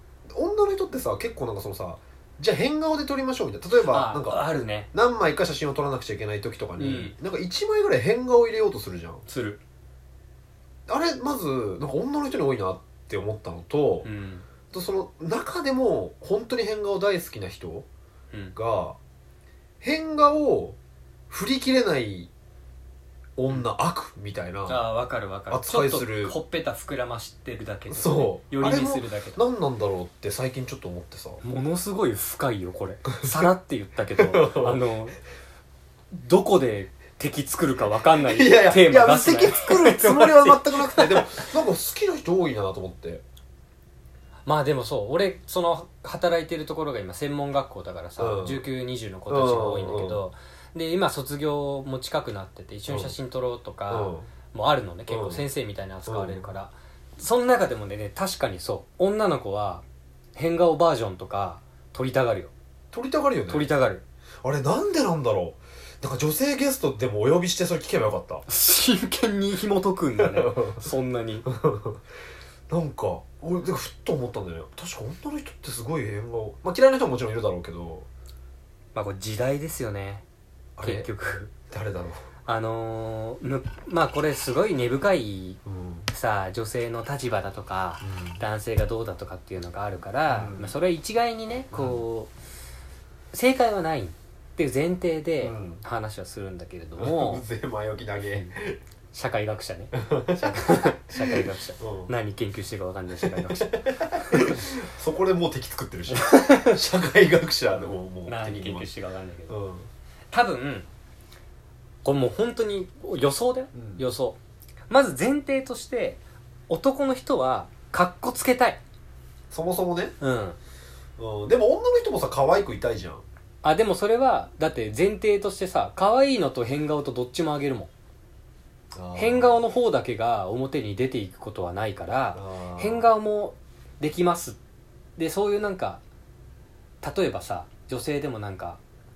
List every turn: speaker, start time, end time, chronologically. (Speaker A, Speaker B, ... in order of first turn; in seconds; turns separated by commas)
Speaker A: 0.3-9.2, Speaker B: 3.8-4.9, Speaker B: 6.8-7.1, Speaker B: 9.3-9.6, Speaker A: 10.9-14.1, Speaker B: 14.0-14.4, Speaker A: 14.7-17.9, Speaker A: 18.6-19.0, Speaker A: 19.8-20.8, Speaker A: 21.3-22.3, Speaker A: 23.4-24.9, Speaker B: 24.7-29.4, Speaker A: 25.5-26.4, Speaker A: 27.9-31.4, Speaker B: 31.4-35.2, Speaker A: 33.1-33.5, Speaker A: 34.1-34.8, Speaker B: 36.1-41.5, Speaker A: 38.2-43.2, Speaker B: 44.5-59.8, Speaker A: 48.2-48.7, Speaker A: 49.3-50.2, Speaker A: 52.9-53.2, Speaker A: 53.9-54.3, Speaker A: 55.1-55.4, Speaker A: 56.1-56.5, Speaker B: 60.4-62.5, Speaker A: 62.9-63.7, Speaker B: 63.5-64.0, Speaker A: 64.4-68.4, Speaker B: 68.5-71.5, Speaker A: 70.2-70.9, Speaker A: 71.5-72.0, Speaker A: 72.7-78.1, Speaker B: 79.0-80.2, Speaker A: 80.8-82.2, Speaker B: 80.8-81.4, Speaker B: 82.5-92.3, Speaker A: 85.7-86.1, Speaker A: 88.0-88.4, Speaker A: 90.3-90.8, Speaker A: 91.7-92.0, Speaker B: 93.3-97.4, Speaker A: 95.4-95.8, Speaker A: 97.0-98.8, Speaker B: 99.1-104.6, Speaker A: 99.9-102.1, Speaker A: 103.2-108.9, Speaker B: 106.1-106.8, Speaker B: 107.8-109.6, Speaker A: 109.5-109.9, Speaker B: 110.3-110.9, Speaker B: 112.0-114.4, Speaker A: 113.7-114.0, Speaker B: 114.9-118.8, Speaker A: 119.5-120.1, Speaker B: 120.2-120.6, Speaker A: 121.2-123.2, Speaker B: 123.6-127.9, Speaker A: 128.9-129.6, Speaker B: 129.2-134.6, Speaker A: 132.3-133.1, Speaker B: 135.2-136.0, Speaker B: 137.0-138.8